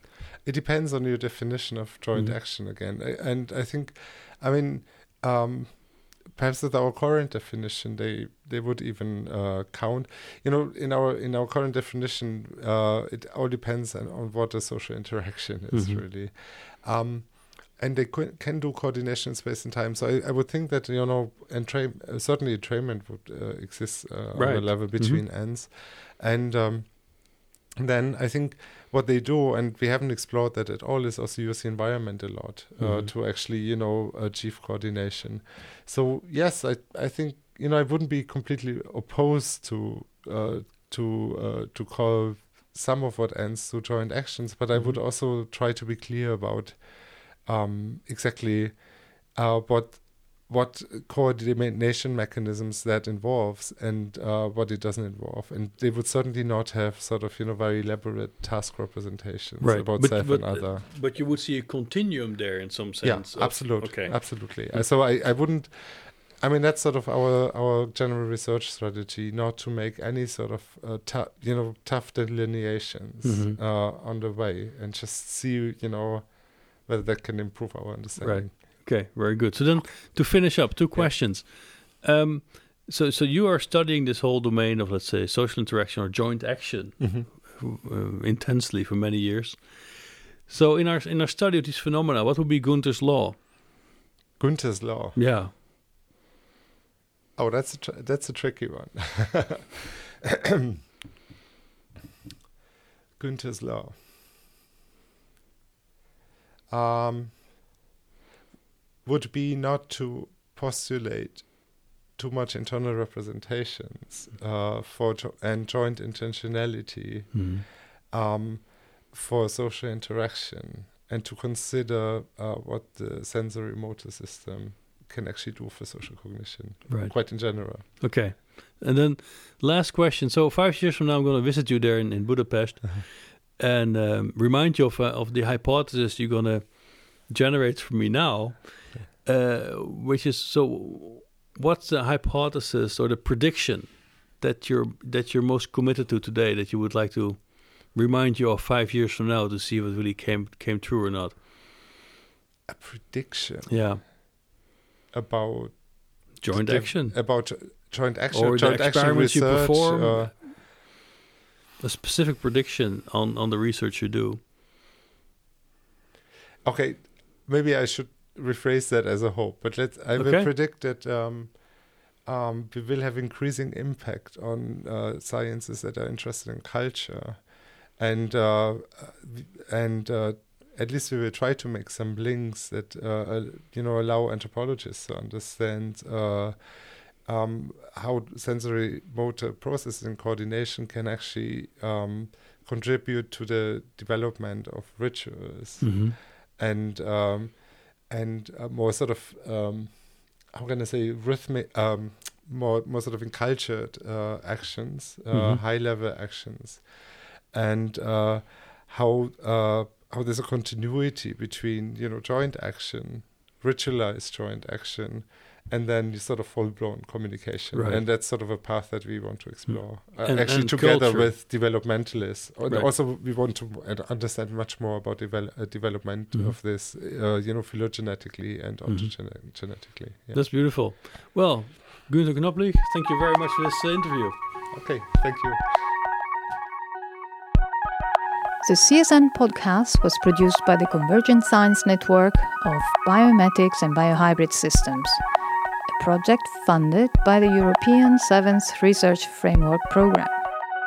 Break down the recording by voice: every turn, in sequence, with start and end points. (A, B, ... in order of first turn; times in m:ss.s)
0:00.4-0:46.8 A
0:15.7-0:16.0 B
0:24.3-0:25.2 B
0:32.8-0:33.1 B
0:44.7-0:45.0 B
0:47.4-0:48.8 A
0:49.3-1:00.8 A
0:59.6-1:04.8 B
1:03.0-1:18.5 A
1:13.2-1:13.6 B
1:18.2-1:33.4 B
1:27.0-1:27.3 A
1:34.4-1:35.2 A
1:35.1-1:35.5 B
1:37.4-1:40.8 A
1:43.2-1:44.0 A
1:46.7-1:47.4 A
1:49.0-1:57.6 A
1:57.3-1:57.6 B
1:58.1-2:08.1 A
2:06.9-2:31.4 B
2:32.7-2:34.1 A
2:33.7-2:34.0 B
2:35.1-2:40.5 A
2:36.4-2:37.2 B
2:38.3-2:40.3 B
2:41.8-2:44.4 B
2:46.6-3:26.8 A
2:50.2-2:50.5 B
3:15.8-3:16.2 B
3:25.3-3:25.6 B
3:27.5-3:50.5 A
3:37.7-3:38.0 B
3:39.6-3:41.3 B
3:48.8-3:49.1 B
3:50.3-3:54.4 B
3:54.7-3:56.0 A
3:58.6-4:05.2 C
4:05.9-4:10.4 C